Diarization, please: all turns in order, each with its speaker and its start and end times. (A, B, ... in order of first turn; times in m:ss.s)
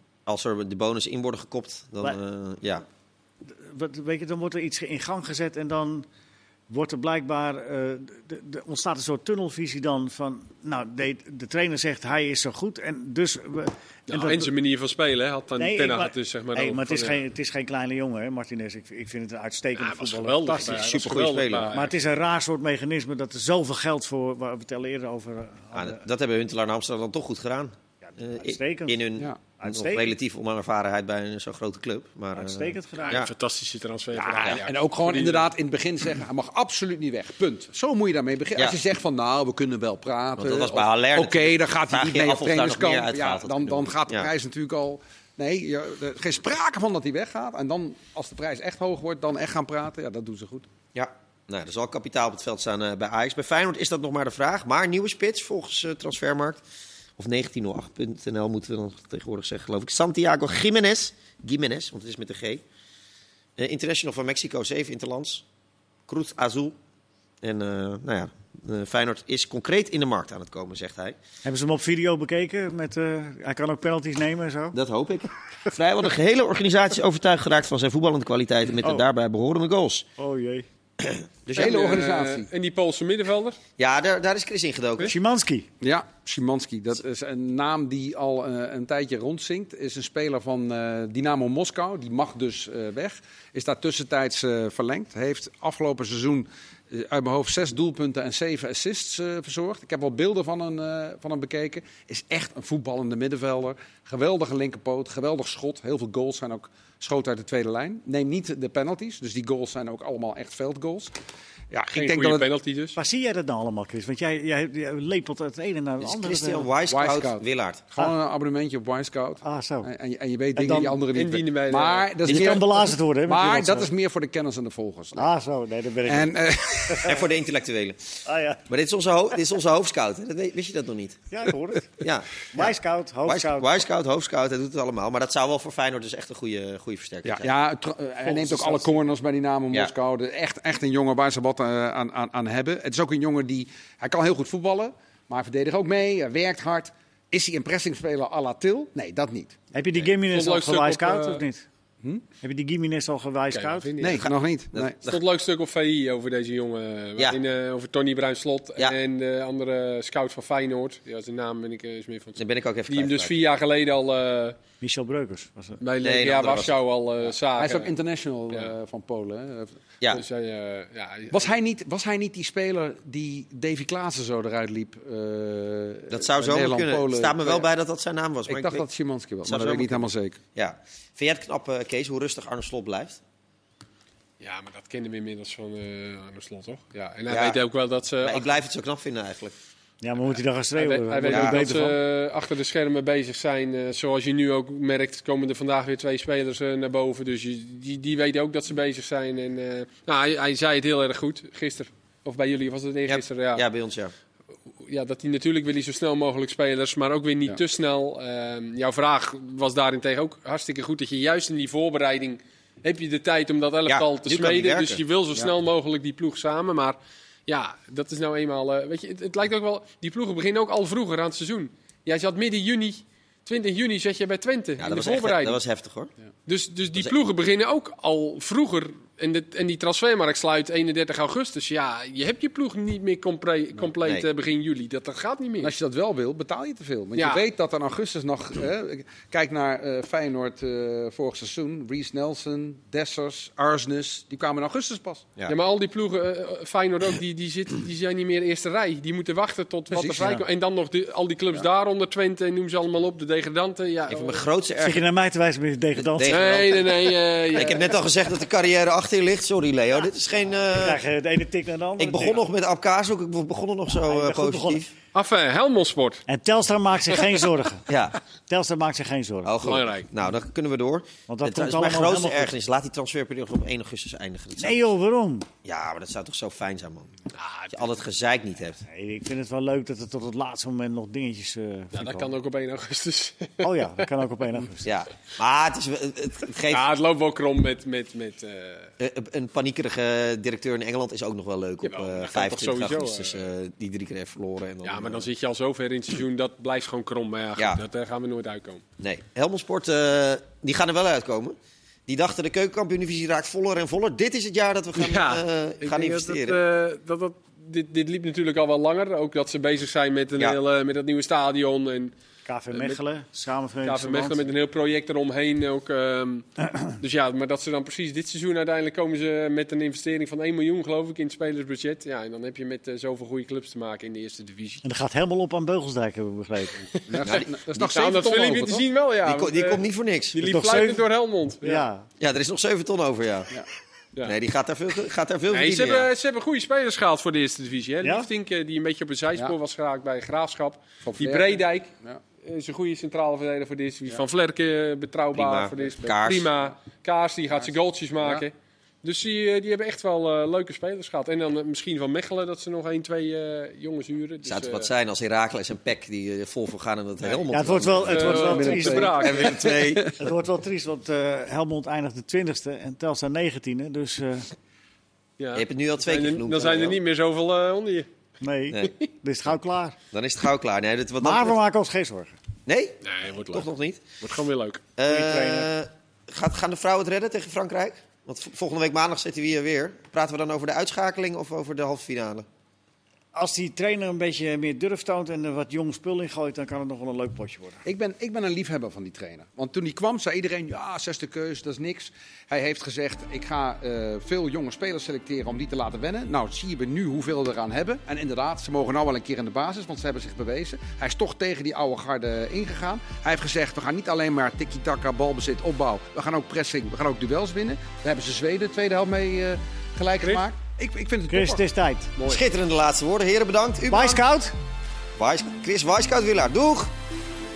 0:00.3-0:02.8 A
0:03.4-0:06.1 B
0:06.7-0:14.5 B
0:14.1-0:17.2 C
0:15.6-0:26.0 B
0:19.8-0:21.9 C
0:20.6-0:21.7 A
0:25.7-0:33.3 A
0:28.4-0:30.2 B
0:32.3-0:33.3 B
0:33.1-0:35.5 C
0:34.1-0:50.7 D
0:40.4-0:44.3 A
0:51.0-0:56.6 A
0:57.2-1:02.6 A
1:03.6-1:05.4 A
1:06.1-1:06.8 A
1:07.4-1:11.2 A
1:11.4-1:14.8 B
1:14.7-1:20.1 A
1:20.2-1:20.7 B
1:21.0-1:22.0 A
1:21.5-1:22.5 D
1:21.6-1:23.6 C
1:23.8-1:25.1 A
1:25.0-1:25.7 B
1:25.8-1:51.1 D
1:51.7-1:52.5 D
1:51.9-1:53.0 C
1:53.0-1:56.7 B
1:56.0-1:57.8 A
1:56.9-2:05.3 D
1:59.4-1:59.9 B
2:00.5-2:01.0 B
2:01.1-2:02.1 C
2:02.2-2:03.9 B
2:02.3-2:02.6 A
2:05.1-2:07.2 B
2:06.0-2:07.2 D
2:07.0-2:11.4 A
2:08.2-2:08.6 B
2:11.3-2:13.8 B
2:12.0-2:12.7 A
2:13.2-2:17.5 A
2:17.3-2:29.6 D
2:18.3-2:18.8 A
2:29.7-2:31.7 B
2:30.3-2:31.4 C
2:32.4-2:33.9 B
2:33.5-2:34.2 C
2:34.0-2:35.0 D
2:34.1-2:35.2 A
2:35.0-2:44.6 C
2:42.4-2:43.4 A
2:44.8-2:45.8 B
2:45.8-2:47.9 C
2:46.0-2:46.8 A
2:47.6-2:49.8 D
2:50.1-2:51.6 C
2:51.3-2:57.7 D
2:56.1-2:58.9 A
2:58.5-3:00.4 D
2:59.4-3:03.2 A
3:04.4-3:08.5 C
3:07.3-3:07.6 A
3:08.2-3:09.6 A
3:10.0-3:12.0 B
3:10.8-3:23.6 C
3:11.3-3:11.7 A
3:23.1-3:24.1 A
3:24.8-3:45.6 C
3:33.9-3:35.0 A
3:44.8-3:46.1 A
3:46.4-3:55.7 C
3:55.6-4:05.3 D
3:57.1-3:57.4 C
4:05.5-4:14.4 C
4:09.9-4:10.3 D
4:10.2-4:10.4 B
4:14.1-4:15.1 A
4:14.8-4:16.8 B
4:16.0-4:21.0 A
4:16.3-4:18.0 C
4:20.7-4:22.4 B
4:22.0-4:24.9 A
4:23.9-4:24.8 B
4:25.1-4:26.2 C
4:26.3-4:27.9 B
4:27.9-4:28.2 A
4:28.5-4:29.7 B
4:29.4-4:34.9 A
4:29.6-4:30.1 C
4:31.3-4:32.5 B
4:34.6-4:35.5 B
4:35.6-4:37.1 A
4:37.3-4:37.8 C
4:37.7-4:38.8 A
4:38.8-4:42.3 B
4:41.9-4:44.1 C
4:43.6-4:44.9 B
4:44.8-4:46.8 A
4:46.7-4:48.9 C
4:49.0-4:55.3 A
4:51.8-4:53.5 C
4:54.8-4:58.8 C
4:59.0-5:01.6 A
5:02.1-5:06.6 A
5:05.0-5:12.1 C
5:12.4-5:14.5 B
5:12.7-5:13.0 C
5:13.8-5:16.5 C
5:17.0-5:24.8 C
5:24.8-5:26.8 B
5:26.9-5:27.3 C
5:27.1-5:28.8 D
5:27.2-5:27.9 A
5:27.8-5:31.8 C
5:29.2-5:30.4 A
5:30.4-5:31.1 B
5:31.6-5:32.1 B
5:32.2-5:33.5 A
5:34.2-5:36.1 A
5:35.5-5:54.9 C
5:41.0-5:42.2 D
5:45.3-5:46.5 A
5:47.5-5:48.4 D
5:54.4-6:00.2 A
5:57.5-5:59.4 B
5:58.1-6:00.2 D
5:58.1-5:59.7 C
6:00.2-6:04.5 B
6:05.4-6:08.1 C
6:05.6-6:07.0 A
6:08.4-6:10.0 B
6:10.1-6:11.6 A
6:11.2-6:12.3 B
6:12.7-6:14.0 A
6:13.0-6:13.7 C
6:14.2-6:14.8 C
6:15.0-6:22.4 A
6:15.1-6:15.7 B
6:23.3-6:27.8 B
6:27.8-6:51.6 D
6:50.2-6:50.4 C
6:51.3-6:52.1 B
6:52.2-6:52.4 C
6:52.2-6:54.2 A
6:53.9-6:54.5 B
6:55.2-6:56.9 A